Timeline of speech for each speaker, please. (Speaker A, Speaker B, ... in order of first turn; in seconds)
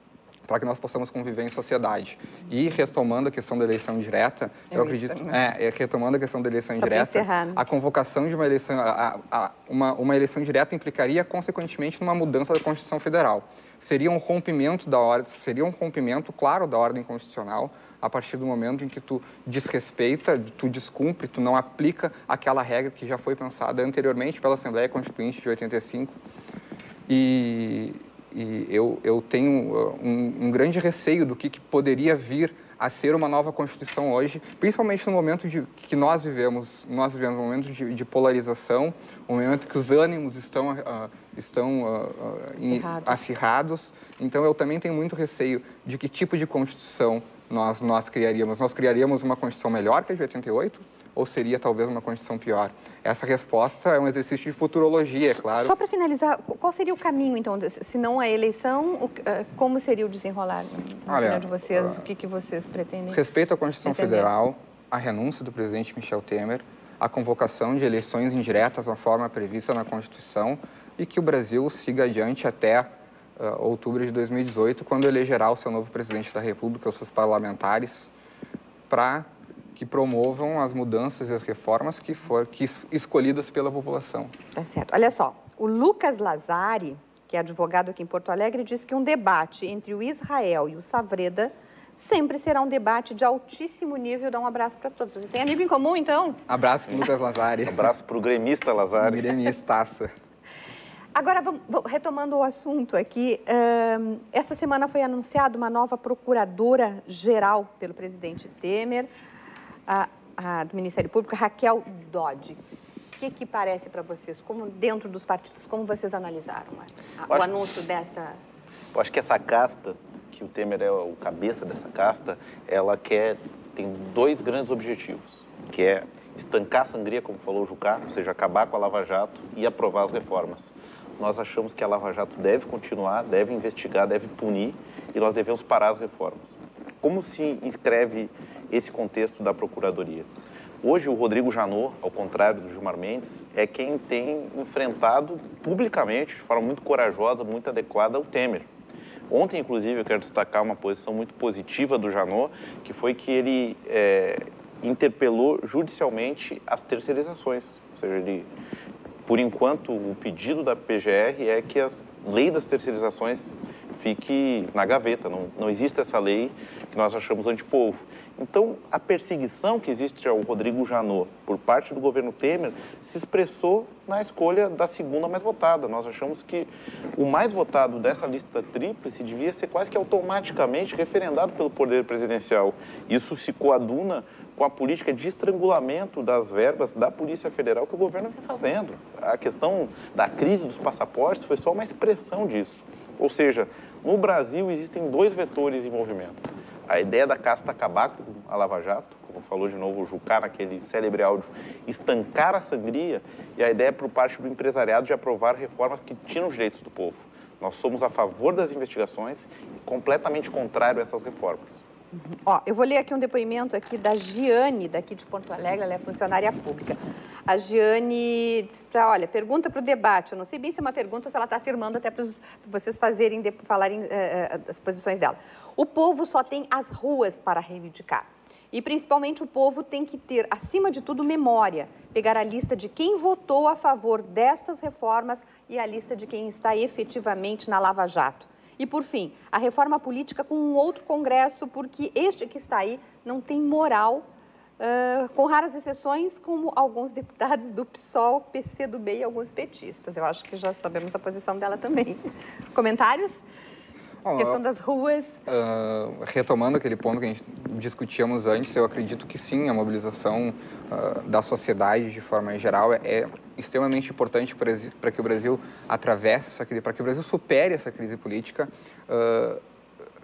Speaker A: 0.5-26.1, 27.1-55.7, 61.1-62.0, 63.1-78.1, 78.9-84.3, 96.5-97.9, 99.0-100.1, 254.2-254.6, 255.5-269.6
Speaker B: 4.7-5.3, 6.8-7.6, 42.6-43.2, 55.5-63.2, 63.8-64.3, 84.5-96.4, 101.1-109.1, 109.9-112.6, 113.2-118.4, 212.2-244.2, 244.8-252.2, 252.7-253.4, 254.3-255.3
Speaker C: 97.6-99.4, 118.9-140.3, 140.8-148.7, 149.3-158.5, 159.2-211.8